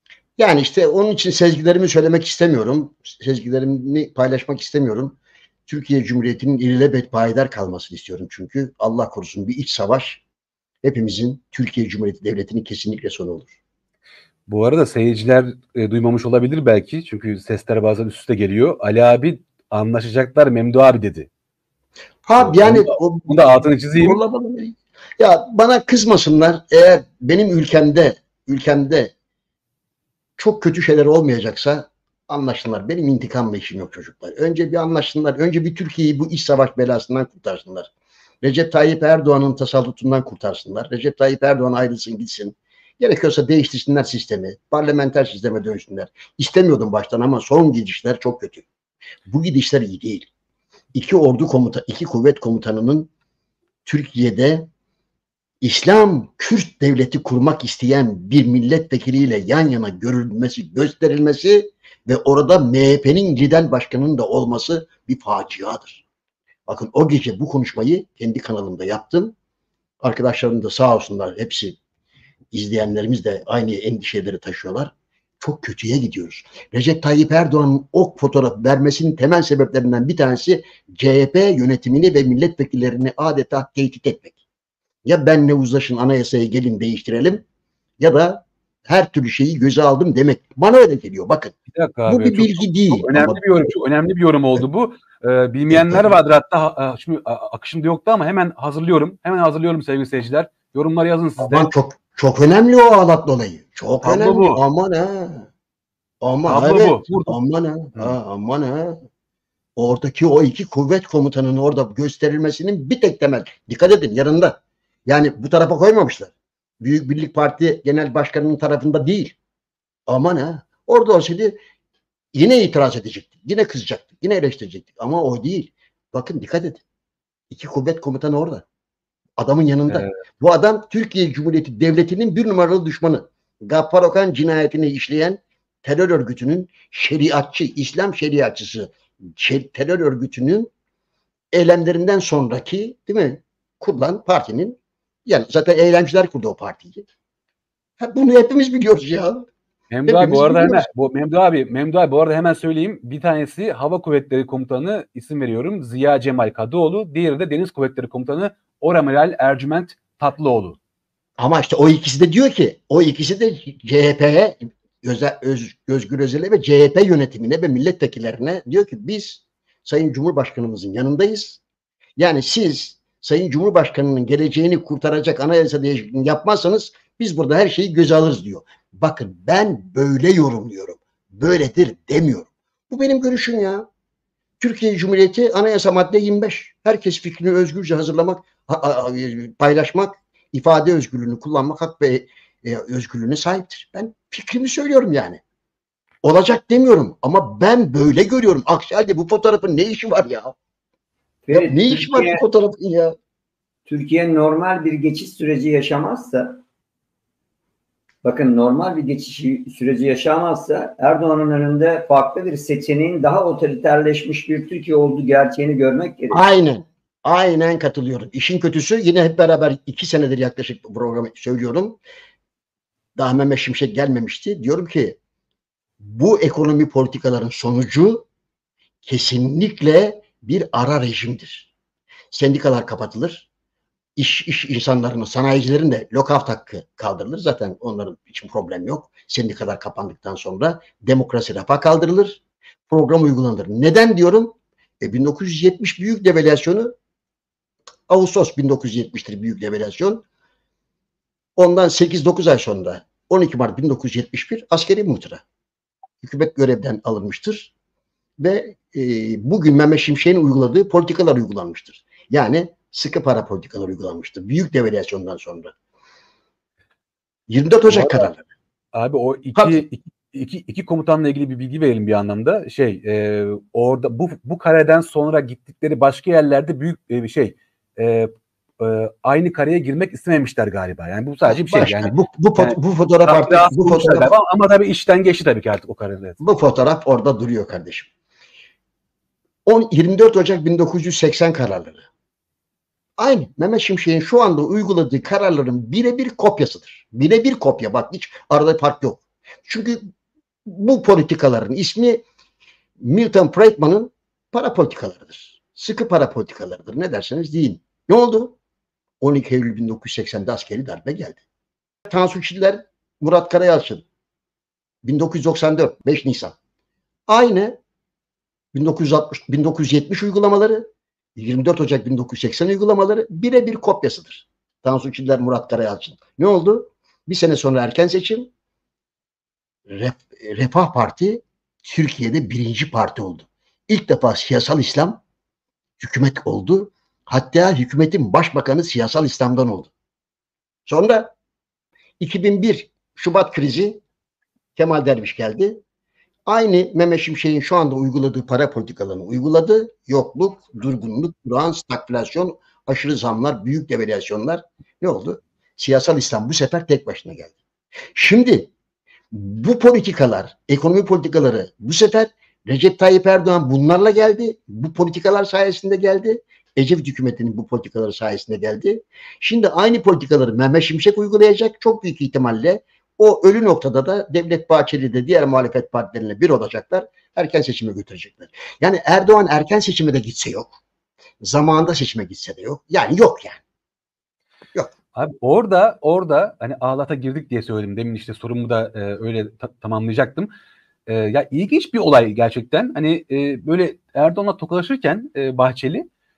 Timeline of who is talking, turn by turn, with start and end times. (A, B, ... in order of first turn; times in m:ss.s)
0:00.4-0:10.2 A
0:10.8-0:13.6 A
0:14.5-0:21.3 B
0:22.2-0:29.1 A
0:22.4-0:24.2 B
0:30.4-0:37.9 A
0:38.4-0:48.7 A
0:49.3-0:50.3 A
0:50.9-0:53.1 A
0:53.8-0:54.7 A
0:55.6-1:06.0 A
1:06.7-1:09.4 A
1:10.0-1:11.8 A
1:12.5-1:24.4 A
1:25.0-1:27.4 A
1:28.0-1:31.6 A
1:31.7-1:41.7 B
1:32.1-1:33.4 A
1:35.7-1:36.1 A
1:41.4-1:45.5 A
1:44.0-1:44.6 B
1:46.2-1:49.0 A
1:46.5-1:47.4 B
1:49.8-1:59.4 A
2:00.1-2:01.6 A
2:02.3-2:06.8 A
2:07.5-2:08.6 A
2:09.4-2:20.7 A
2:21.5-2:27.0 A
2:28.0-2:29.4 A
2:29.9-2:40.8 B
2:30.1-2:30.9 A
2:41.4-2:51.6 A
2:52.2-3:03.8 A
3:04.6-3:15.4 A
3:16.2-3:20.6 A
3:21.5-3:22.4 C
3:21.5-3:23.2 A
3:23.9-3:26.6 C
3:28.2-3:36.4 C
3:36.3-3:42.0 A
3:43.2-3:45.2 A
3:46.0-3:48.3 A
3:49.0-3:51.7 A
3:52.3-3:53.5 A
3:54.2-4:06.9 A
4:08.1-4:10.2 A
4:11.6-4:15.4 A
4:16.2-4:17.7 A
4:18.4-4:25.7 A
4:27.5-4:28.4 A
4:27.9-4:28.3 B
4:28.9-4:46.4 B
4:29.6-4:29.8 A
4:41.5-4:44.3 A
4:46.4-4:48.1 A
4:49.7-4:52.0 A
4:53.2-5:00.1 A
5:00.7-5:02.2 A
5:03.0-5:08.6 A
5:09.2-5:11.4 A
5:12.1-5:14.0 A
5:15.0-5:16.6 A
5:17.3-5:17.8 A
5:18.7-5:20.8 A
5:21.4-5:28.5 A
5:29.9-5:35.2 A
5:36.0-5:39.9 A
5:40.9-5:41.3 A
5:42.2-5:44.0 A
5:44.8-5:45.8 A
5:46.5-5:57.6 A
5:58.2-5:58.7 A
5:59.3-6:20.8 A
6:21.4-6:23.6 A
6:25.2-6:30.5 B
6:31.1-6:36.1 B